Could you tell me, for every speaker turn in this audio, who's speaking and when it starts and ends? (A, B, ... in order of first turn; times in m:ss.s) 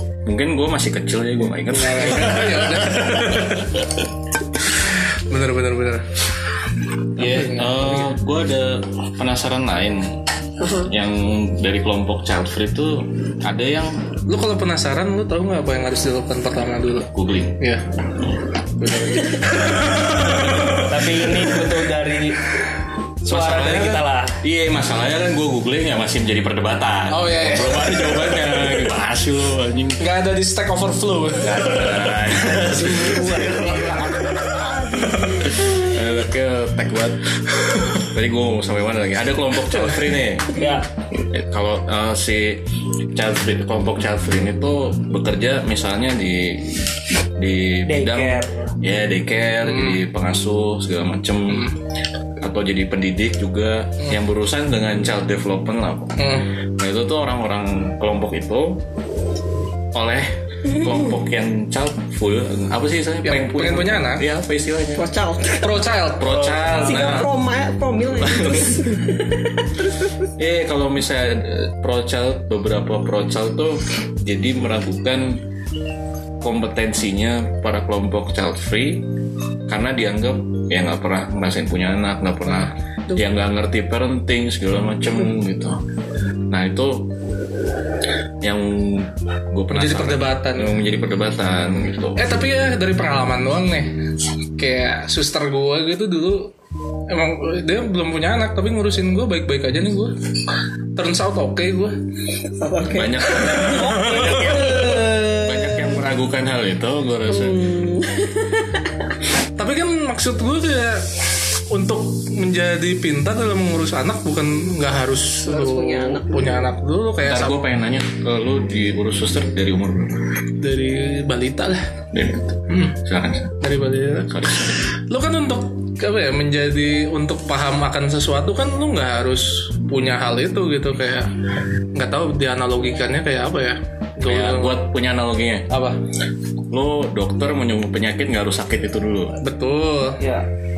0:00.3-0:03.8 A
0:01.7-0:03.8 B
0:04.8-0:06.0 B
0:07.2-0:08.1 B
0:07.2-0:10.1 A
0:10.6-0:10.9 C
0:10.7-0:14.0 A
0:14.3-0:17.8 B
0:17.1-0:17.6 A
0:18.8-0:20.9 B
0:20.8-0:22.5 D
0:23.2-0:30.0 A
0:23.3-0:24.4 D
0:27.1-0:28.4 B
0:30.0-0:31.7 B
0:31.4-0:34.4 A
0:31.7-0:34.1 D
0:32.9-0:33.2 B
0:34.0-0:35.9 C
0:35.4-0:37.2 A
0:38.0-0:40.6 A
0:40.6-0:40.8 D
0:41.2-0:42.6 A
0:43.1-0:51.6 A
0:47.9-0:48.7 D
0:49.7-0:50.0 B
0:52.4-0:58.8 A
0:56.2-0:56.5 B
0:59.9-1:05.0 A
1:03.2-1:04.2 B
1:05.0-1:05.9 C
1:05.6-1:07.3 B
1:06.2-1:07.3 A
1:06.2-1:07.0 D
1:06.8-1:10.3 C
1:08.2-1:08.8 A
1:10.4-1:15.4 A
1:16.4-1:19.0 A
1:19.7-1:25.8 A
1:26.5-1:27.1 A
1:28.4-1:32.3 A
1:29.7-1:30.8 B
1:32.2-1:33.9 B
1:34.6-1:36.5 B
1:37.1-1:40.2 B
1:41.0-1:42.0 B
1:42.6-1:46.0 C
1:42.9-1:47.6 A
1:43.6-1:44.9 B
1:47.3-1:48.9 C
1:49.6-1:51.0 B
1:51.7-1:57.6 B
1:55.5-1:56.7 C
1:57.2-2:00.2 A
2:00.6-2:01.9 B
2:02.1-2:03.6 A
2:02.7-2:03.0 B
2:03.6-2:04.4 B
2:04.3-2:04.9 A
2:05.1-2:11.3 B
2:12.0-2:14.8 B
2:14.3-2:15.7 A
2:15.7-2:16.0 B
2:16.7-2:19.3 A
2:19.4-2:20.2 B
2:20.2-2:20.5 D